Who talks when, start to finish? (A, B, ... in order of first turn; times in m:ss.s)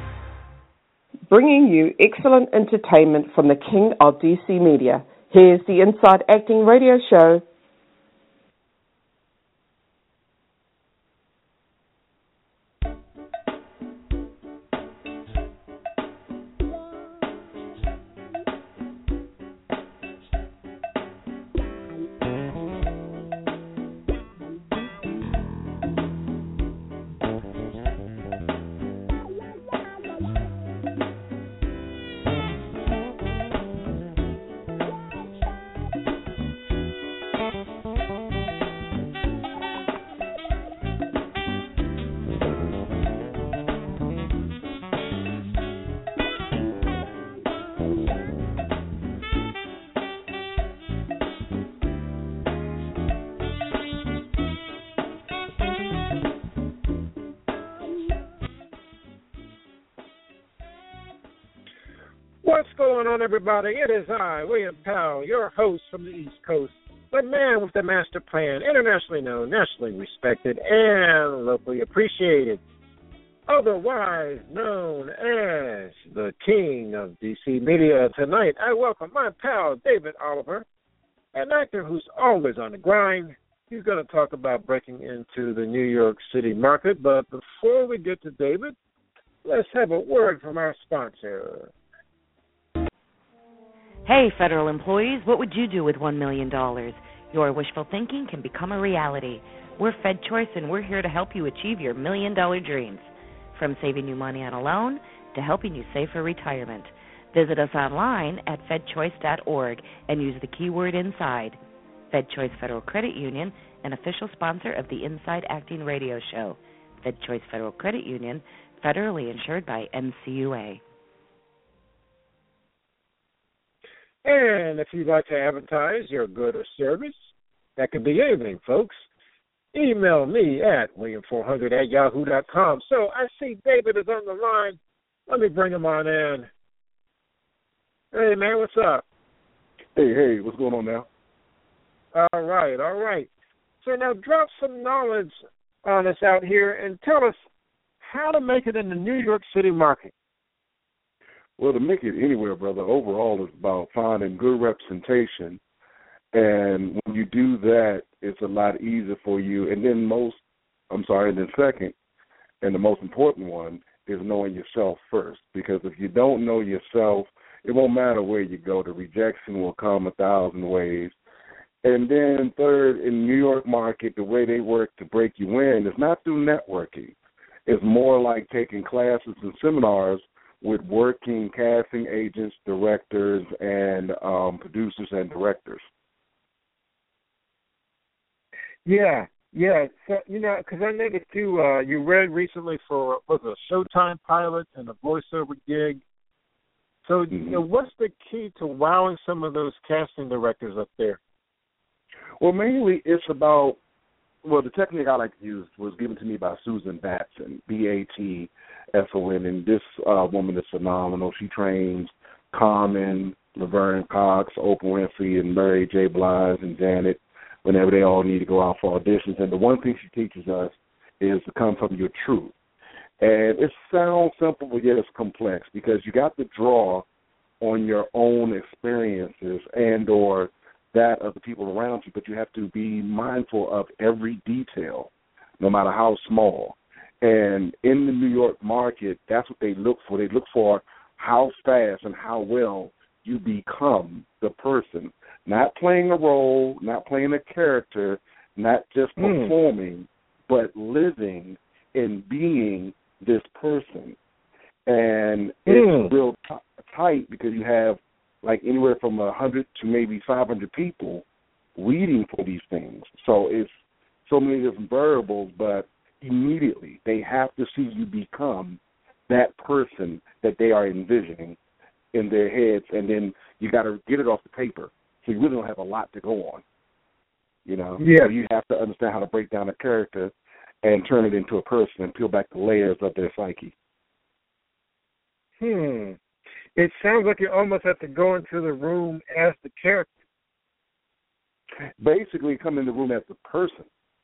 0:01.3-0:07.4 A
1:02.4-1:12.6 B
1:13.5-1:20.7 B
1:21.3-1:28.8 B
1:29.4-1:31.7 B
1:34.1-1:51.6 C
1:52.1-2:00.8 C
2:04.2-2:07.2 B
2:07.8-2:09.1 B
2:09.7-2:16.5 B
2:18.1-2:19.0 B
2:20.0-2:21.1 D
2:22.1-2:23.3 B
2:23.8-2:27.4 B
2:28.0-2:30.1 B
2:31.6-2:35.6 D
2:36.3-2:40.4 D
2:40.9-2:41.9 D
2:42.6-2:51.1 D
2:51.8-2:57.2 D
2:57.7-3:05.8 D
3:08.9-3:16.0 B
3:17.0-3:21.2 B
3:17.3-3:17.6 D
3:22.4-3:23.8 D
3:24.4-3:42.5 D
3:43.2-3:47.1 D
3:47.6-4:14.2 D
4:09.2-4:09.6 B
4:14.9-4:21.2 D
4:15.7-4:16.1 B
4:21.8-4:23.7 D
4:24.3-4:31.6 D
4:32.1-4:36.6 D
4:37.7-4:40.3 D
4:38.0-4:38.3 B
4:40.8-4:43.7 D
4:45.6-4:46.2 B
4:46.8-4:50.1 B
4:52.0-4:53.9 D